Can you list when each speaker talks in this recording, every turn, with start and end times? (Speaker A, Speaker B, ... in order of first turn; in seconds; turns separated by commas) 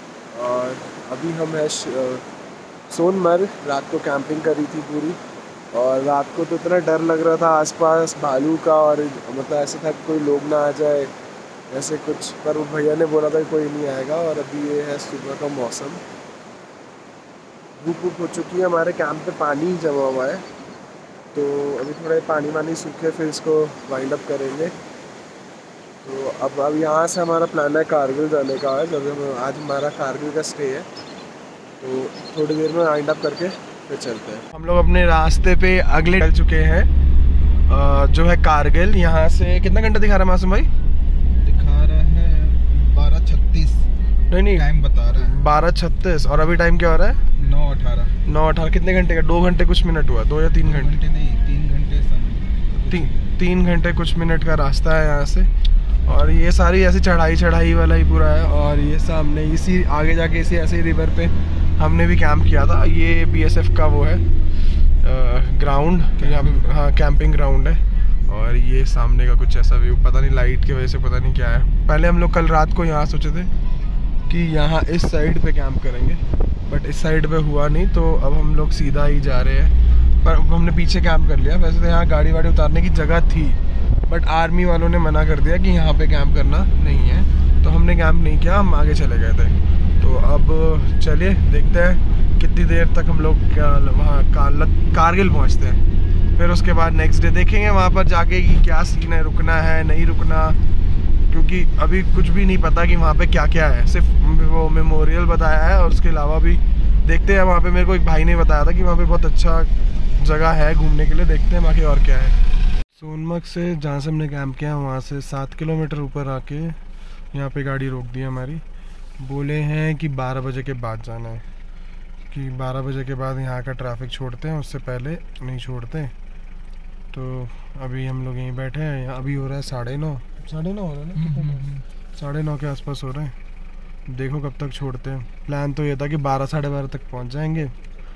Speaker A: 0.3-2.2, Speaker A: 2.9-5.2, Speaker A: 5.7-11.1, Speaker A: 11.7-16.0, Speaker A: 17.8-20.4, Speaker A: 21.3-24.7, Speaker A: 26.0-30.9, Speaker A: 31.8-36.9, Speaker A: 37.7-40.7, Speaker B: 41.4-43.9, Speaker A: 44.3-47.2, Speaker B: 44.5-45.4, Speaker B: 47.4-48.1, Speaker A: 48.2-51.0, Speaker B: 50.6-53.2, Speaker A: 52.9-55.5, Speaker A: 56.0-64.3, Speaker A: 65.0-73.5, Speaker A: 74.3-95.8, Speaker A: 96.3-100.6, Speaker A: 101.3-112.4, Speaker A: 113.0-116.8, Speaker A: 117.3-118.6, Speaker A: 119.2-121.5, Speaker A: 122.3-126.1, Speaker A: 127.1-133.3, Speaker B: 131.2-131.8, Speaker A: 134.1-137.7